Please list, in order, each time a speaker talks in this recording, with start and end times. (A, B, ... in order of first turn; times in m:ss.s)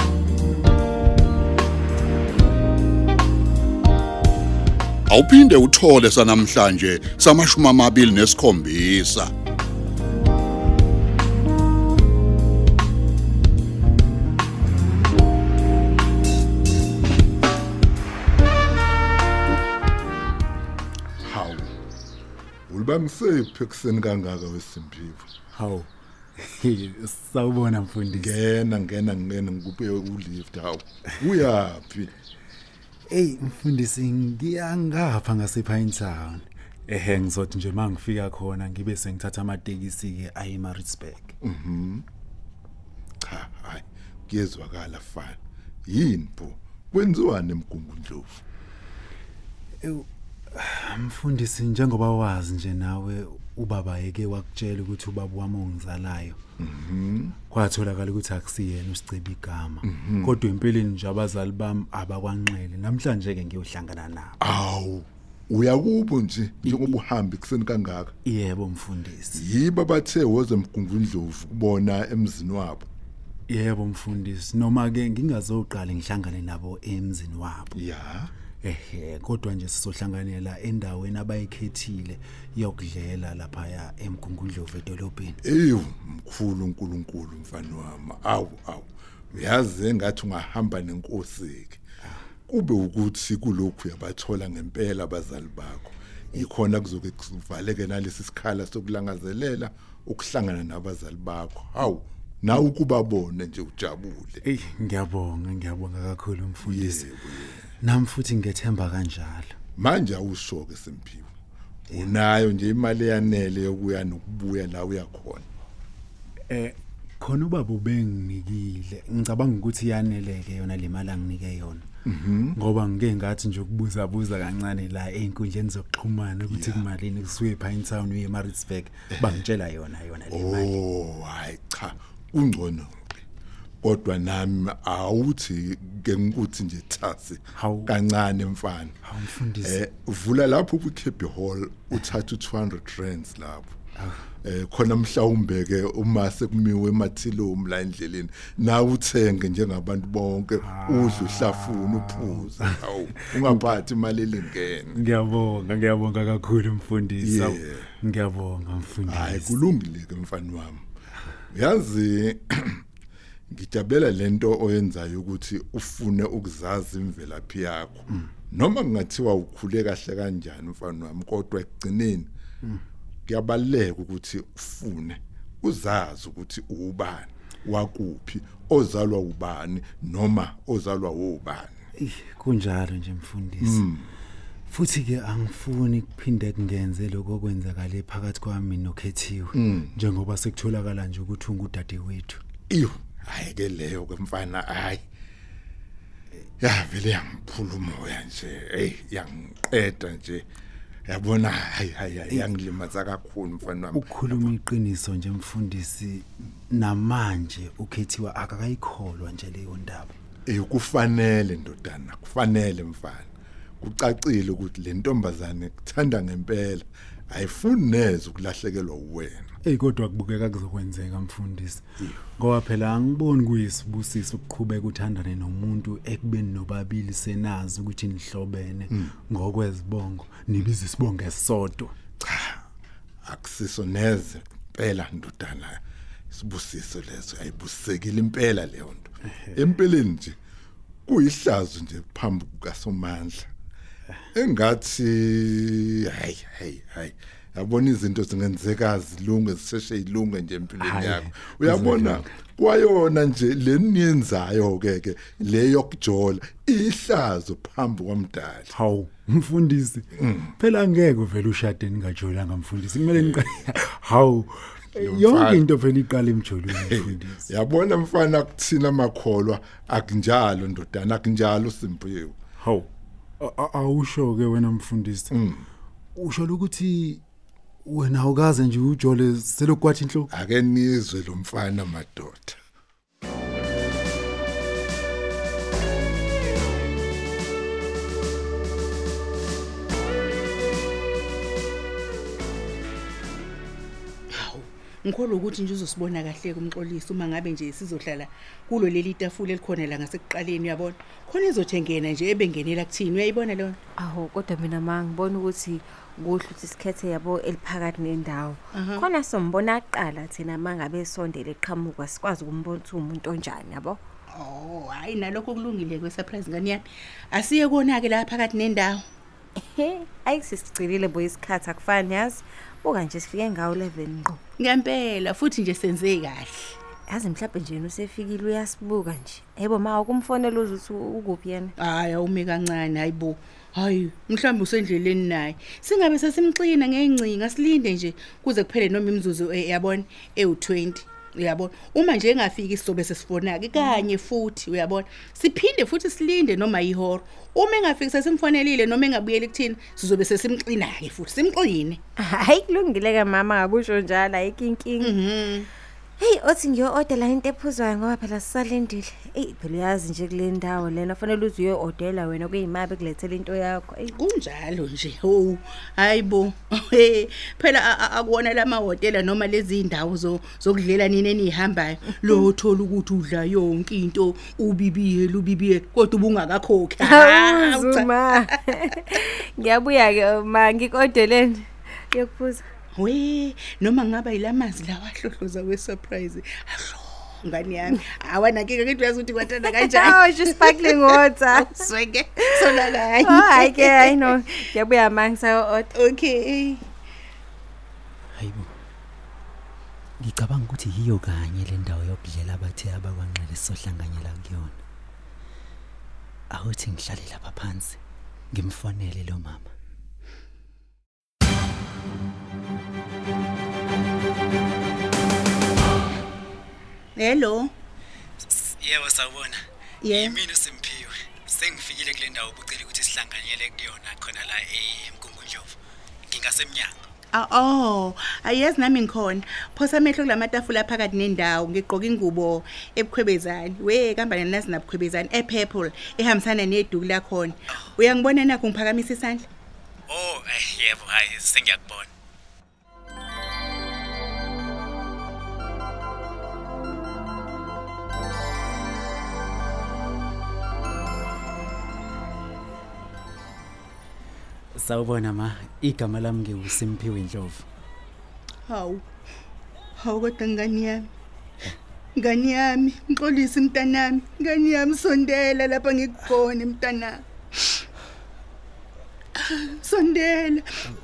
0:05.1-0:09.3 A
0:21.2-0:21.7 B
0:22.7-0:25.3 B
0:25.5-0:28.3 C
0:28.1-0:32.1 B
0:33.1-0:41.4 C
0:41.4-0:42.0 B
0:43.2-0:48.4 B
0:49.8-0:56.4 C
0:56.6-0:57.4 B
0:57.5-1:04.4 C
0:59.8-1:00.4 B
1:04.4-1:08.1 B
1:06.6-1:07.0 C
1:08.2-1:09.4 C
1:09.4-1:12.9 B
1:13.5-1:17.8 C
1:17.8-1:18.3 B
1:18.6-1:25.4 C
1:25.4-1:31.8 B
1:32.5-1:44.4 B
1:44.4-1:47.0 C
1:46.6-1:47.7 B
1:47.7-1:49.6 C
1:49.8-1:51.3 B
1:51.9-1:55.5 B
1:56.5-2:01.9 C
2:02.0-2:02.6 B
2:02.5-2:10.7 C
2:06.5-2:06.8 B
2:10.3-2:13.2 B
2:13.8-2:19.0 B
2:17.6-2:17.9 C
2:19.0-2:19.8 C
2:19.6-2:23.8 B
2:24.0-2:24.3 C
2:24.4-2:35.0 B
2:30.6-2:33.6 C
2:34.9-2:39.6 C
2:37.2-2:37.9 B
2:39.1-2:40.8 B
2:41.5-2:42.8 B
2:43.5-2:52.3 B
2:53.3-3:01.8 B
3:02.0-3:03.8 C
3:03.6-3:04.1 B
3:04.7-3:12.4 C
3:09.6-3:09.9 B
3:12.7-3:15.0 B
3:16.6-3:20.4 B
3:21.1-3:24.6 B
3:23.9-3:30.1 C
3:30.5-3:33.3 B
3:33.8-3:39.5 B
3:39.6-3:51.9 C
3:52.2-3:52.6 B
3:53.3-4:00.4 B
4:01.1-4:03.5 B
4:04.3-4:18.7 B
4:10.8-4:12.3 C
4:18.7-4:27.5 C
4:20.2-4:20.5 B
4:23.2-4:23.7 B
4:25.0-4:25.7 B
4:26.7-4:32.4 B
4:32.6-4:35.3 C
4:35.3-4:35.7 B
4:36.2-4:37.2 C
4:37.8-4:40.3 C
4:40.3-4:42.6 B
4:54.3-5:03.8 D
5:04.0-5:14.0 E
5:08.7-5:09.1 D
5:14.3-5:19.0 D
5:19.6-5:24.4 E
5:24.6-5:26.8 D
5:27.1-5:31.8 E
5:31.8-5:52.0 D
5:52.2-5:55.2 E
5:55.0-5:55.7 D
5:56.2-6:04.2 E
6:04.1-6:18.5 D
6:17.0-6:22.6 E
6:23.0-6:34.4 D
6:29.6-6:31.9 E
6:32.4-6:35.9 E
6:36.0-6:36.9 D
6:38.3-6:38.7 C
6:40.2-6:44.8 C
6:46.5-6:48.0 C
6:48.5-6:49.7 C
6:57.2-6:57.7 D
6:58.4-7:05.8 C
7:00.0-7:00.4 D
7:06.3-7:07.0 C
7:07.3-7:19.5 D
7:20.1-7:22.1 C
7:34.7-7:37.7 C
7:38.7-7:39.0 D
7:40.0-7:41.1 D
7:42.2-7:47.8 D
7:49.4-7:50.7 D